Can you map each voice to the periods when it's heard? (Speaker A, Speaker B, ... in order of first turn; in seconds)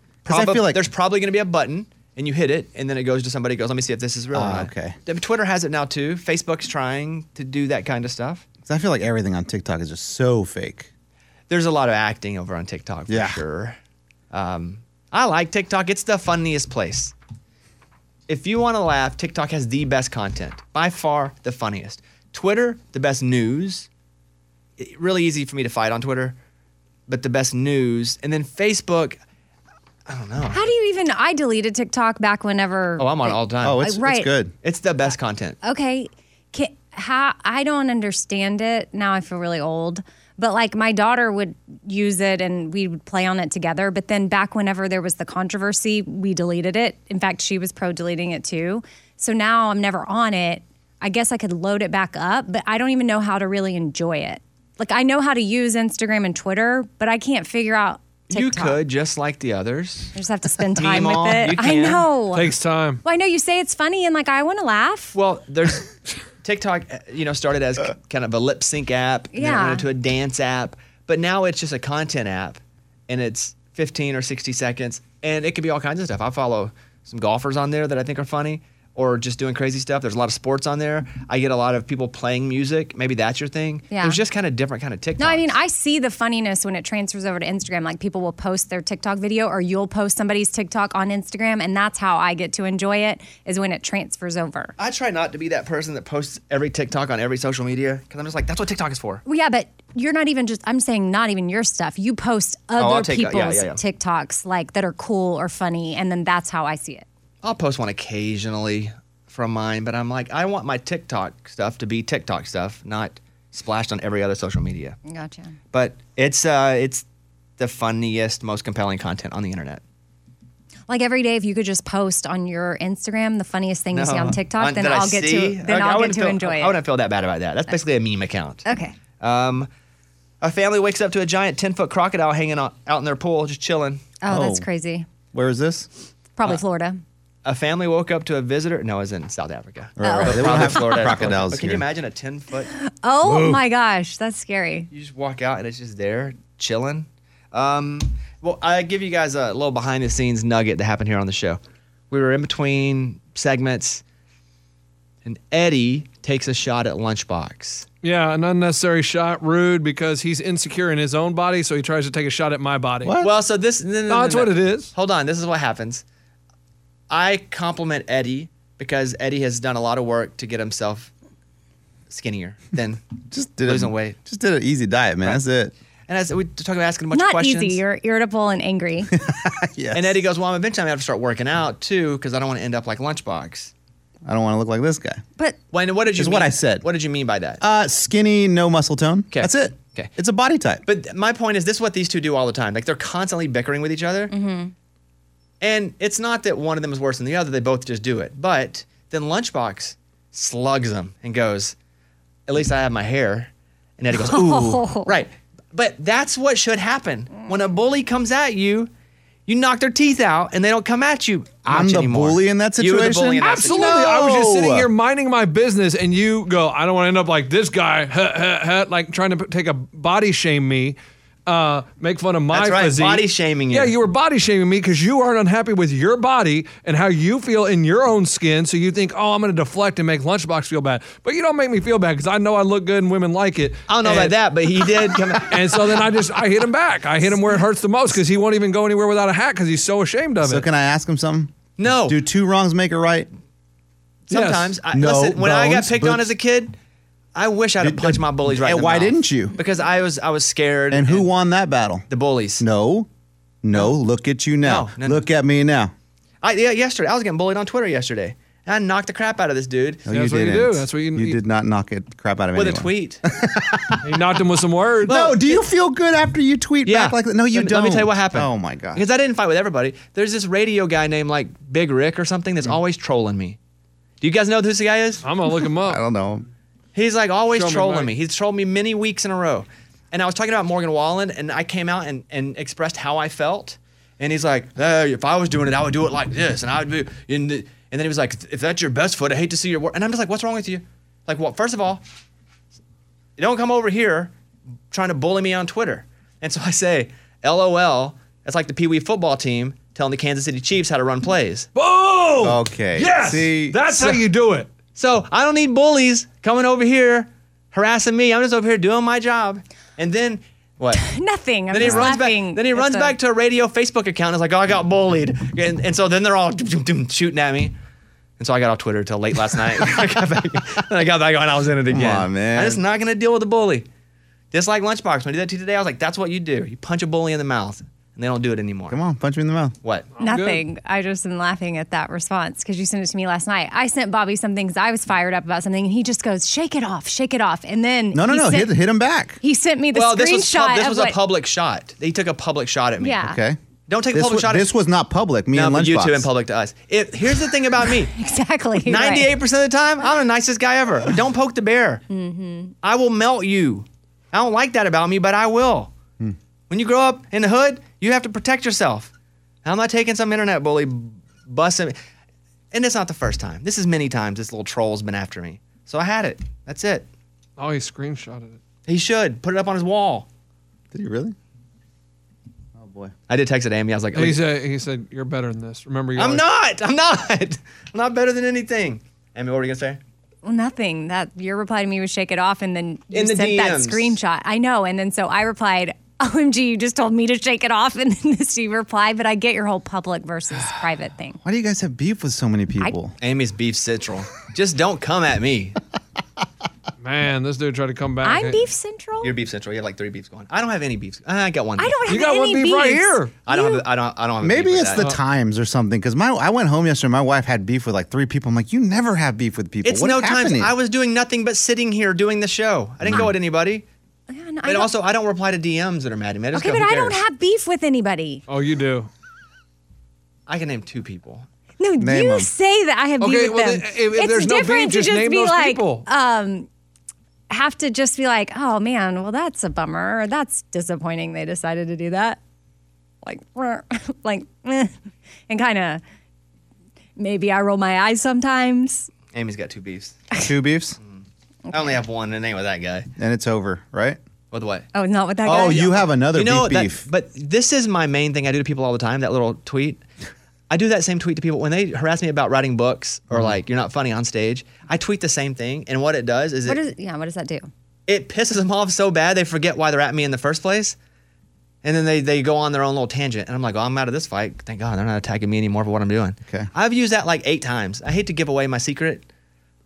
Speaker A: 0.2-0.8, 4.3-5.0, 8.6-10.9, 13.1-13.4, 33.6-34.5, 134.3-134.6, 135.3-135.9, 140.0-141.8, 143.2-143.6, 173.3-175.7, 179.1-180.2, 184.2-185.2, 186.1-186.8, 187.6-190.8, 211.7-214.9, 240.4-241.5, 242.1-243.3, 244.9-246.3, 247.8-249.6, 250.9-252.1, 252.6-253.1, 253.6-255.9, 260.1-264.0, 265.1-269.0, 275.9-276.4, 302.4-304.2, 321.9-322.8, 328.9-329.7, 338.1-339.4, 343.2-343.6, 344.1-346.3, 370.9-371.3, 372.8-373.1, 391.4-393.1, 404.4-410.7, 413.0-413.3, 422.0-422.5, 440.4-441.0, 443.2-444.2, 445.4-447.1, 453.3-453.6
Speaker B: 0.2-8.4, 11.5-13.8, 14.3-17.1, 18.3-23.9, 24.8-26.4, 27.1-29.2, 30.1-30.6, 33.0-33.8, 34.6-35.6, 58.3-60.1, 60.7-62.0, 65.1-65.9, 66.4-85.6, 94.8-99.2, 102.8-103.8, 107.4-115.0, 115.7-117.0, 117.6-119.8, 123.9-128.6, 129.2-129.7, 130.4-134.0, 137.4-142.7, 144.9-154.0, 155.2-157.8, 163.2-166.0, 167.1-171.1, 172.1-173.0, 173.6-174.2, 176.1-177.8, 179.9-183.7, 185.7-187.6, 189.3-190.1, 190.8-194.3, 195.6-201.8, 202.5-208.9, 209.5-214.1, 222.5-223.9, 233.9-235.8, 241.8-242.2, 244.3-246.7, 247.3-251.3, 252.1-252.6, 254.6-255.3, 256.4-260.1, 262.6-263.2, 266.8-273.6, 274.2-275.2, 276.9-292.0, 293.4-294.3, 294.9-301.7, 304.9-311.0, 311.7-317.8, 318.4-323.9, 324.5-328.9, 339.9-343.2, 343.9-344.7, 345.5-348.1, 348.8-352.0, 352.8-355.9, 356.7-359.1, 359.6-362.0, 362.7-367.1, 368.9-370.3, 373.3-374.4, 376.2-380.0, 383.1-384.2, 393.2-395.8, 399.2-401.9, 403.4-405.1, 409.8-413.9, 414.6-417.2, 420.5-421.4, 439.3-440.2, 441.0-443.1, 444.5-444.9, 445.4-450.0, 450.7-456.8, 458.1-460.9, 461.8-469.2
Speaker C: 30.5-34.3, 35.6-58.8, 60.1-65.1, 69.3-69.8, 83.9-84.2, 85.2-94.7, 99.2-107.1, 115.1-115.5, 120.9-126.8, 128.6-128.9, 134.2-135.1, 136.4-137.0, 140.0-141.1, 142.8-144.9, 177.1-179.1, 194.3-194.7, 204.2-205.1, 310.9-313.1, 330.2-338.7, 339.4-341.2, 343.0-343.4, 348.1-349.3, 352.1-352.7, 380.4-391.4, 398.2-399.3, 401.8-403.8, 414.3-414.9, 416.6-418.4, 421.8-426.7, 427.5-432.4, 433.2-435.0, 435.5-436.0, 437.2-439.1, 444.9-445.9, 456.7-457.7
Speaker D: 62.3-63.0, 158.0-163.2, 164.1-164.9, 213.4-234.3, 235.5-240.6, 244.3-244.7, 260.1-261.4, 264.0-265.3, 275.2-276.0, 277.5-278.1, 301.8-304.7, 330.2-330.6, 367.6-368.6, 374.1-376.4, 397.0-398.6, 402.1-403.3, 418.5-419.1, 423.2-426.1